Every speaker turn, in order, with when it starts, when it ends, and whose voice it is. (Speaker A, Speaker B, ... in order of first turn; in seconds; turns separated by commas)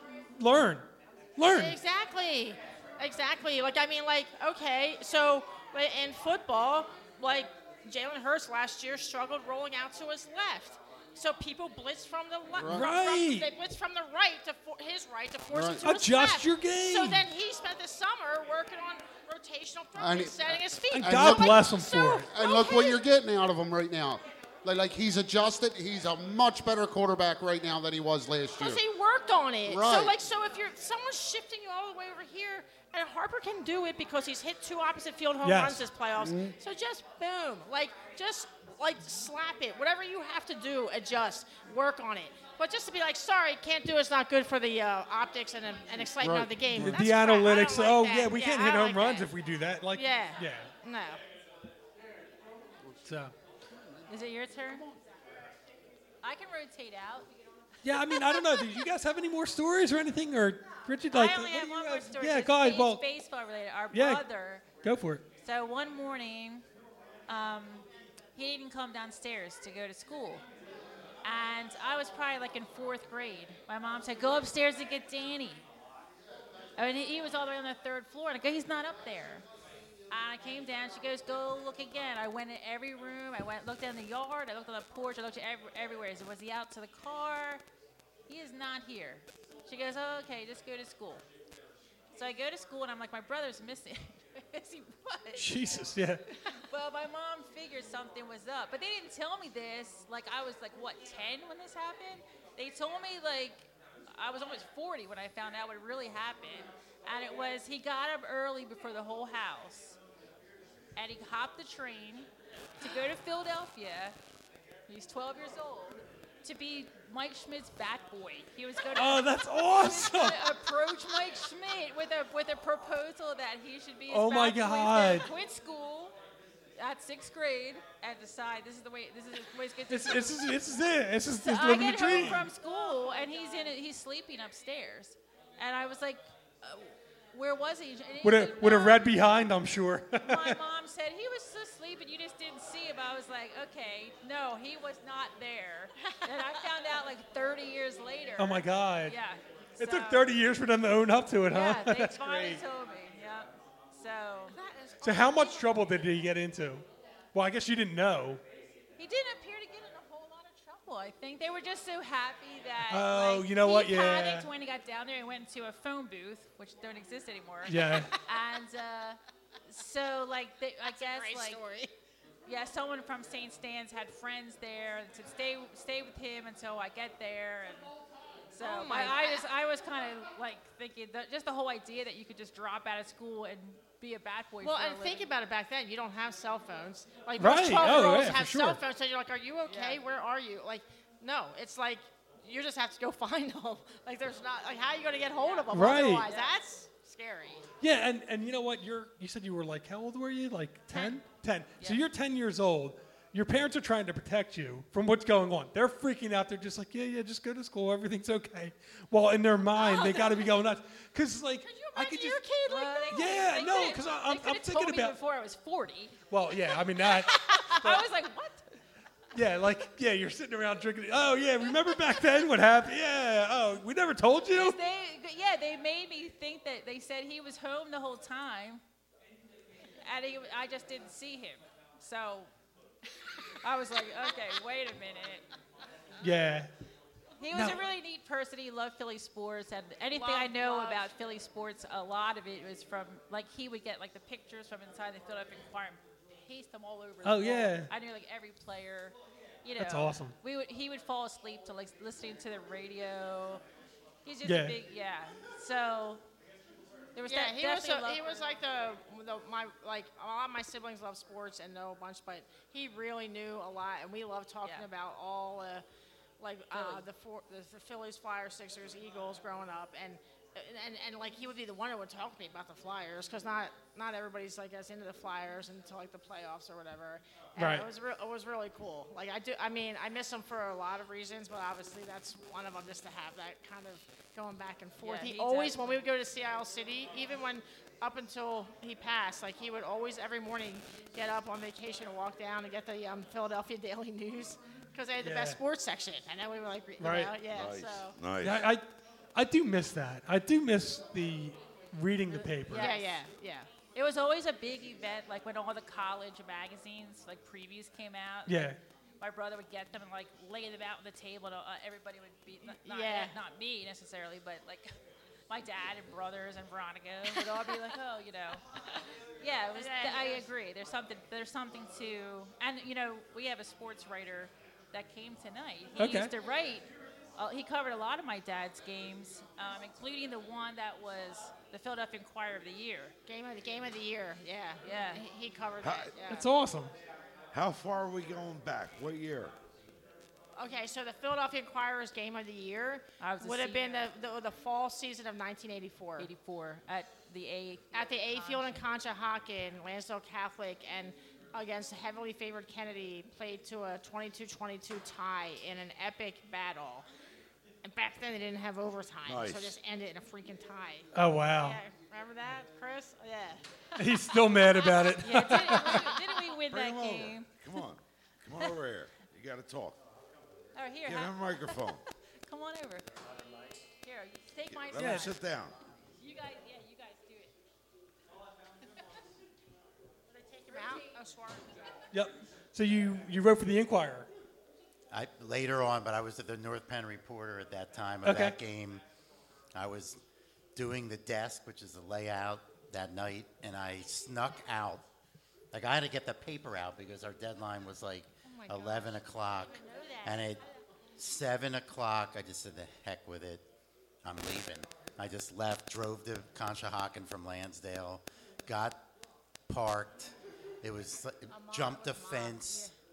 Speaker A: 0.4-1.8, Speaker B: 1.4-23.0, Speaker C: 12.5-12.9, Speaker A: 12.6-13.5, Speaker C: 15.5-15.9, Speaker A: 15.8-17.3, Speaker C: 20.0-28.8, Speaker A: 20.9-22.3, Speaker B: 28.6-49.3, Speaker C: 29.7-30.2, Speaker A: 35.4-35.9, Speaker C: 36.2-36.5, Speaker C: 46.0-47.0, Speaker A: 46.7-50.7, Speaker B: 49.9-51.2, Speaker A: 53.0-53.3, Speaker C: 53.7-54.1, Speaker D: 54.1-54.9, Speaker C: 54.7-55.0, Speaker D: 56.2-58.4, Speaker A: 57.8-63.0, Speaker D: 61.1-64.7, Speaker A: 63.9-64.2, Speaker A: 64.8-65.2, Speaker D: 65.4-66.7, Speaker D: 67.3-70.4, Speaker D: 71.2-75.6, Speaker D: 76.8-79.5, Speaker D: 80.1-87.6, Speaker D: 88.3-91.2, Speaker D: 92.1-95.6, Speaker A: 95.4-96.2, Speaker D: 96.5-110.0, Speaker D: 111.0-112.3, Speaker D: 112.8-114.2, Speaker D: 114.9-126.2, Speaker A: 118.9-120.5, Speaker A: 124.1-125.3, Speaker D: 126.8-130.6, Speaker A: 129.9-132.5, Speaker D: 131.4-139.2, Speaker B: 132.8-133.5, Speaker A: 138.2-140.6, Speaker D: 140.2-150.3, Speaker B: 146.0-146.3, Speaker A: 148.4-149.2, Speaker A: 149.8-152.6, Speaker D: 151.5-155.7, Speaker B: 154.9-155.6, Speaker A: 155.0-158.4, Speaker D: 159.0-171.6, Speaker A: 162.9-164.5, Speaker A: 167.7-168.1, Speaker B: 170.9-171.9, Speaker D: 172.5-177.9, Speaker D: 178.5-185.3, Speaker B: 178.6-179.4, Speaker B: 184.6-197.6, Speaker A: 187.4-188.8, Speaker D: 189.7-190.0, Speaker D: 195.4-196.6, Speaker A: 195.7-196.3, Speaker A: 197.8-215.2, Speaker B: 209.8-210.5, Speaker B: 211.6-213.3, Speaker D: 212.7-216.2, Speaker A: 216.3-218.1, Speaker D: 217.5-218.7, Speaker A: 219.3-224.8, Speaker D: 224.5-228.8, Speaker D: 230.0-232.5, Speaker D: 233.6-235.4, Speaker A: 236.2-236.7, Speaker D: 237.4-253.6, Speaker A: 237.5-237.8, Speaker B: 240.1-241.1, Speaker A: 247.2-247.9, Speaker A: 249.8-250.4, Speaker D: 254.2-256.2, Speaker A: 254.4-254.8, Speaker D: 257.1-258.5, Speaker B: 257.3-265.9, Speaker B: 266.4-298.2, Speaker D: 266.7-267.1, Speaker A: 277.6-277.9, Speaker D: 285.0-285.8, Speaker A: 295.2-295.6, Speaker A: 297.0-297.4, Speaker E: 297.5-298.7, Speaker A: 298.4-302.9, Speaker B: 302.3-303.8, Speaker D: 302.8-303.1, Speaker D: 303.8-308.7, Speaker A: 308.5-308.8, Speaker D: 309.2-314.9, Speaker B: 312.7-313.3, Speaker D: 315.5-318.6, Speaker B: 317.3-317.9, Speaker D: 319.4-333.1, Speaker B: 319.8-320.5, Speaker A: 326.0-326.3, Speaker B: 333.3-336.5, Speaker D: 334.8-335.2, Speaker E: 335.8-336.1, Speaker A: 336.2-336.9, Speaker E: 337.5-339.5, Speaker B: 340.6-346.3, Speaker D: 343.2-344.1, Speaker D: 346.2-348.8, Speaker B: 347.9-357.1, Speaker B: 357.8-363.6, Speaker E: 359.3-359.8, Speaker A: 361.1-361.8, Speaker A: 364.0-366.1, Speaker D: 365.2-367.5, Speaker E: 366.7-370.0, Speaker D: 370.8-371.9, Speaker E: 371.1-372.0, Speaker D: 372.4-373.1, Speaker D: 374.0-375.4, Speaker E: 374.7-375.7, Speaker A: 375.0-375.3, Speaker D: 376.2-377.5, Speaker B: 380.3-381.9, Speaker D: 380.7-381.1, Speaker A: 382.1-384.3, Speaker F: 385.1-389.0, Speaker A: 388.2-388.6, Speaker F: 389.7-390.2, Speaker F: 390.8-395.0, Speaker F: 395.7-400.6, Speaker B: 398.5-400.6, Speaker F: 401.2-403.6, Speaker F: 404.2-409.0, Speaker F: 409.7-412.9, Speaker B: 411.5-412.9